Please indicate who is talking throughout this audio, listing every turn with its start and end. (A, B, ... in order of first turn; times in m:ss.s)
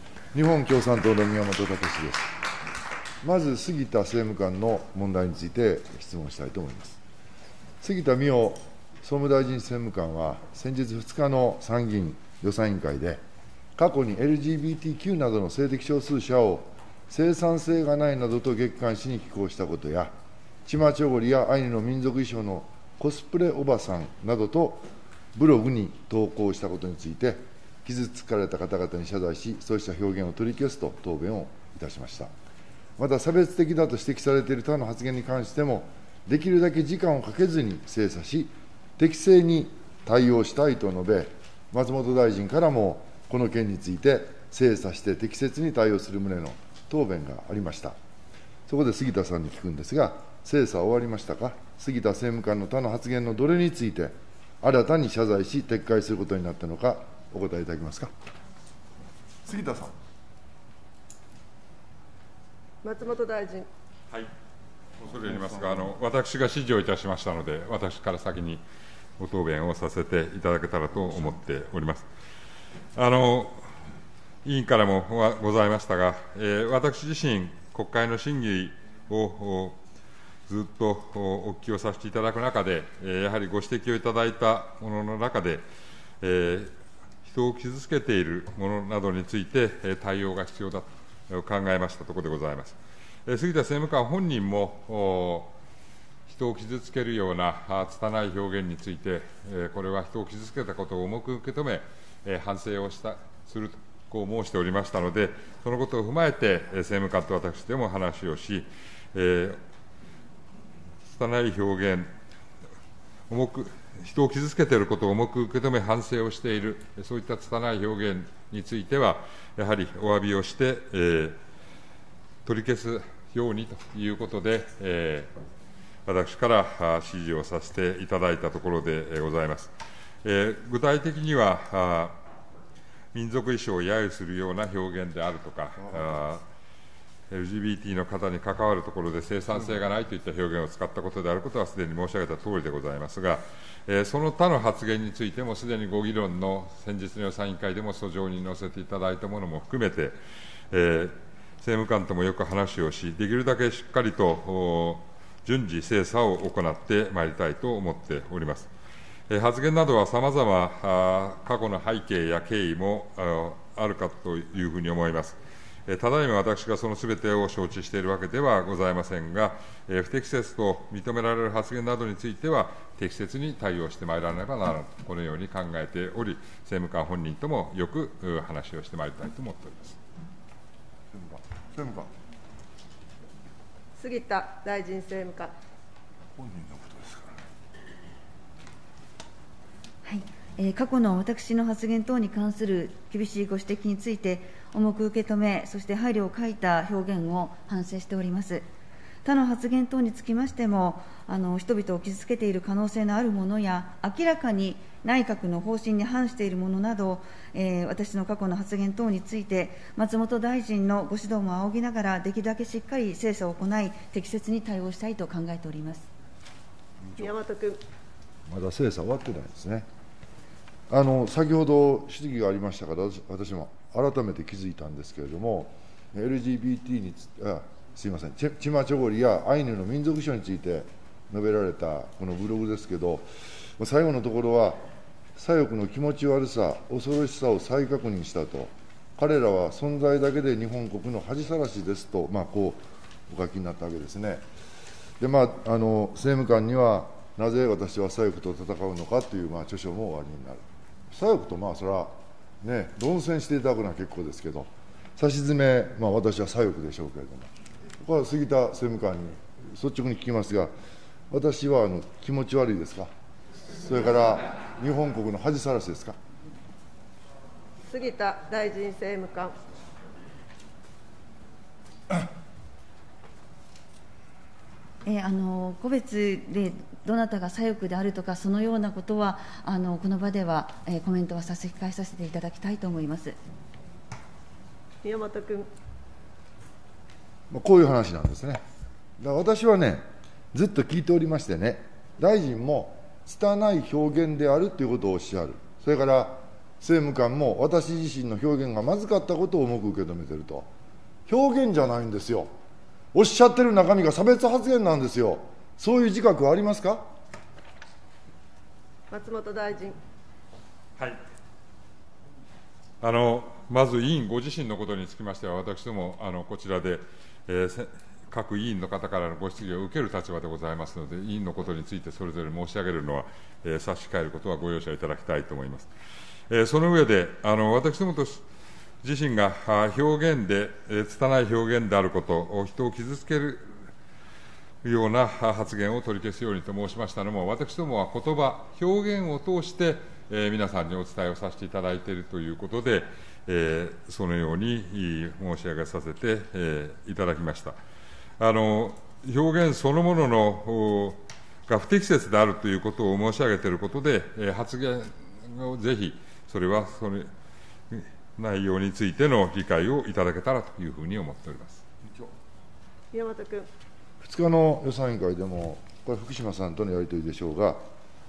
0:00.3-0:02.3 A
0:03.2-0:07.0 A
0:07.8-0:13.2 A
0:13.8-0:20.1 A
0:20.6-0:32.3 A
0:33.0-0:47.9 A
0:48.7-0:58.1 A
0:59.4-0:59.9 A
1:02.8-1:03.7 B
1:05.0-1:08.6 C
1:05.2-1:05.8 A
1:09.2-1:12.0 C
1:13.0-1:13.6 C
1:14.4-1:19.8 C
1:20.5-1:25.6 C
1:26.2-1:26.7 C
1:27.2-1:35.5 C
1:36.3-1:49.6 C
1:51.1-1:52.1 C
1:53.3-2:01.4 C
2:02.4-2:05.3 C
2:06.0-2:09.7 C
2:10.2-2:12.2 C
2:13.1-2:16.4 C
2:17.3-2:30.2 C
2:30.7-2:38.7 C
2:39.3-3:00.0 C
3:01.1-3:02.1 A
3:04.0-3:05.5 B
3:06.4-3:07.4 A
3:10.0-3:18.6 D
3:19.2-3:36.1 D
3:37.2-3:37.8 B
3:38.5-3:39.8 A
3:40.9-3:53.3 A
3:53.8-3:54.8 A
3:55.4-4:04.4 A
4:05.2-4:17.5 A
4:18.0-4:20.7 A
4:21.3-4:23.1 A
4:23.7-4:26.2 A
4:27.9-4:29.5 B
4:35.0-4:43.3 D
4:45.0-4:45.7 B
4:47.5-4:48.6 A
4:49.2-5:00.7 A
5:01.3-5:02.5 A
5:03.1-5:07.1 A
5:09.1-5:10.0 B
5:13.0-5:25.9 C
5:26.5-5:28.4 C
5:29.0-5:33.6 C
5:34.8-5:47.8 C
5:48.4-5:57.3 C
5:57.9-6:01.8 C
6:03.1-6:03.7 B
6:04.2-6:07.8 A